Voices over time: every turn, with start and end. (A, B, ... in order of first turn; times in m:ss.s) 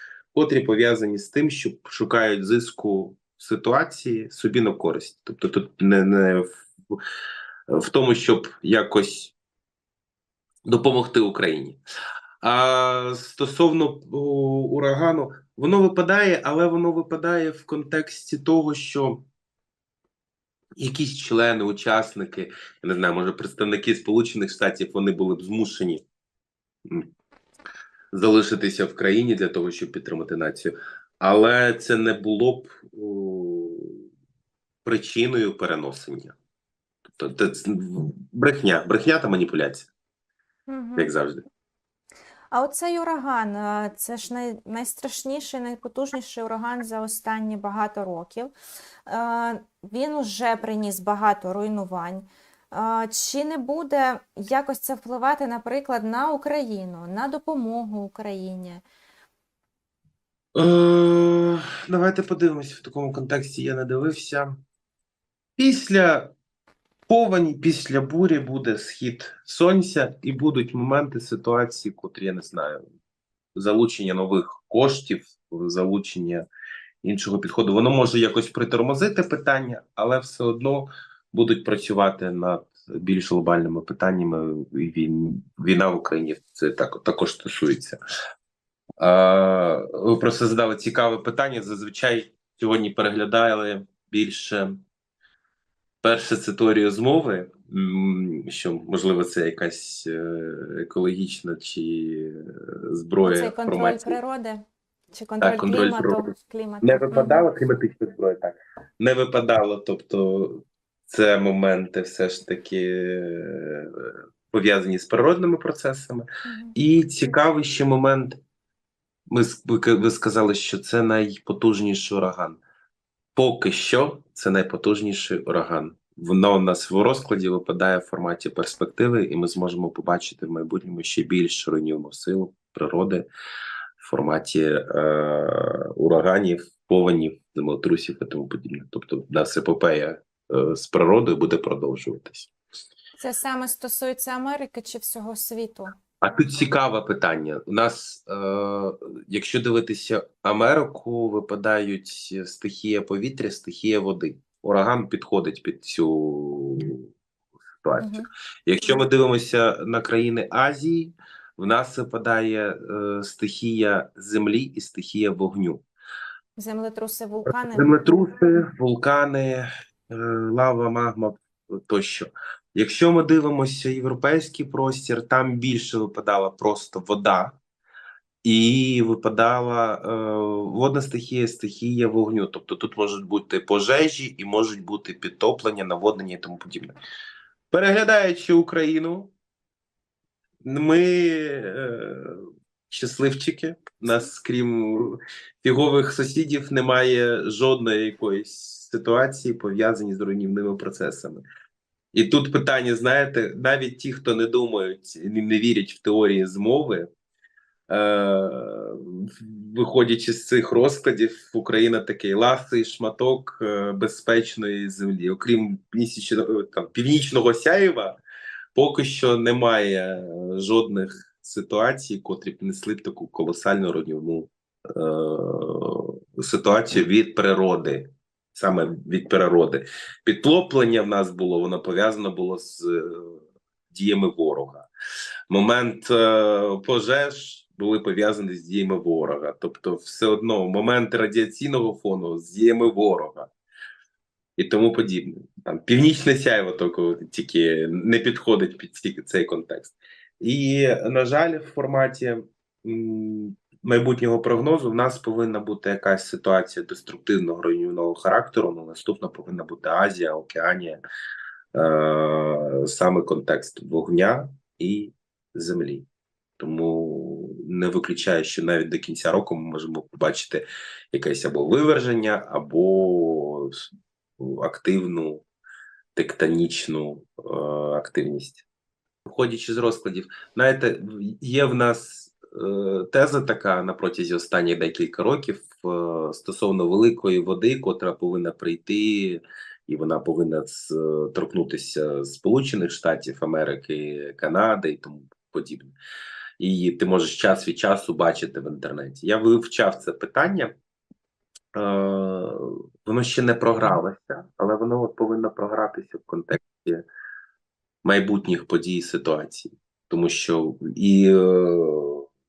0:00.3-0:07.0 A
0:07.7-0:09.3 A
0:10.7-0:11.8 A
0:12.4-0:19.3 A
0:20.8-0:26.0 A
0:28.1-0:34.0 A
0:34.8-0:36.4 A
0:37.1-0:39.9 A
0:40.7-0:41.1 B
0:41.0-0:41.4 A
0:42.5-0:48.5 B
0:49.1-0:58.8 B
1:00.6-1:04.6 A
1:05.6-1:06.3 A
1:07.1-1:12.8 A
1:13.6-1:16.5 A
1:17.0-1:28.0 A
1:29.0-1:34.8 A
1:36.0-1:44.2 A
1:43.2-1:47.5 B
1:45.4-1:46.3 A
1:46.8-1:58.4 A
1:56.4-1:56.8 B
1:59.3-2:02.6 A
2:03.4-2:13.3 A
2:14.0-2:22.5 A
2:23.2-2:26.0 B
2:26.2-2:37.0 A
2:37.8-2:38.2 A
2:38.0-2:38.3 B
2:38.7-2:45.8 A
2:46.6-2:48.3 B
2:47.5-2:57.6 A
2:58.4-3:07.0 A
3:07.7-3:09.3 A
3:10.6-3:21.4 A
3:22.1-3:27.1 A
3:27.9-3:38.2 A
3:38.8-3:54.9 A
3:55.5-4:03.5 A
4:04.6-4:21.0 A
4:21.7-4:26.1 A
4:26.6-4:33.9 A
4:34.4-4:35.4 A
4:36.2-4:38.6 A
4:39.3-4:56.0 A
4:56.6-5:00.7 A
5:01.7-5:07.1 A
5:08.0-5:12.2 A